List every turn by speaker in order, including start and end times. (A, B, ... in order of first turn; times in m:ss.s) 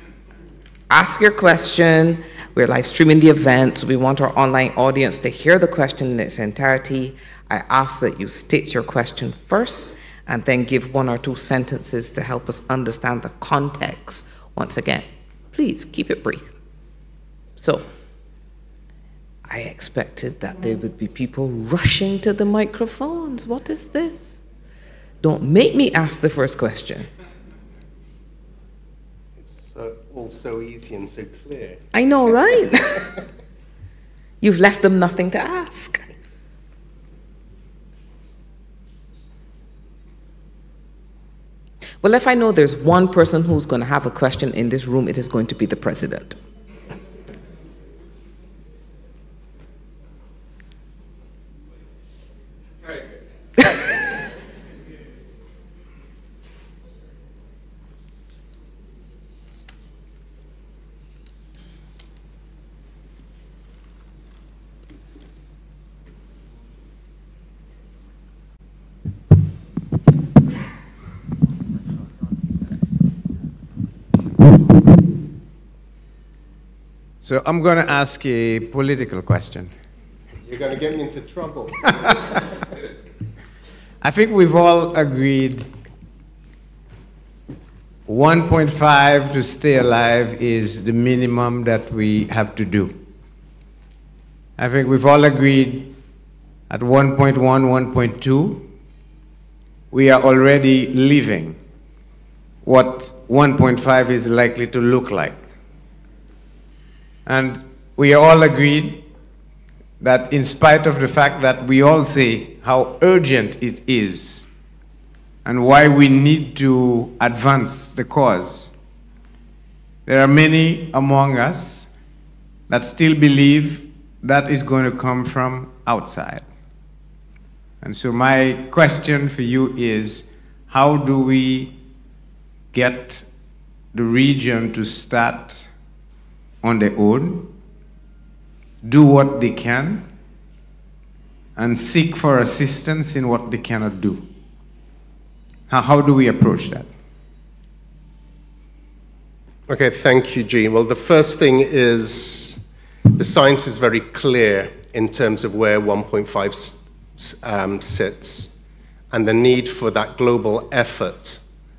0:00.9-0:16.5 A
0:17.6-0:17.8 A
0:19.5-0:24.4 A
0:25.2-0:27.1 A
0:29.4-0:31.8 B
0:31.9-0:33.1 A
0:34.4-0:36.1 A
0:42.0-0:46.4 A
1:17.2-1:19.7 C
1:20.4-1:21.9 B
1:24.0-1:25.7 C
1:28.1-1:33.0 C
1:34.6-1:36.0 C
1:36.7-1:38.7 C
1:39.9-1:41.6 C
1:42.6-1:45.4 C
1:47.2-1:49.0 C
1:50.0-1:54.5 C
1:55.4-1:58.7 C
2:00.0-2:01.9 C
2:02.7-2:06.5 C
2:07.8-2:11.8 C
2:12.7-2:13.3 C
2:13.9-2:15.7 C
2:16.6-2:17.5 C
2:18.8-2:20.1 C
2:21.6-2:24.3 C
2:25.7-2:26.9 C
2:29.7-2:32.6 B
2:33.2-2:38.5 B
2:39.1-2:41.4 B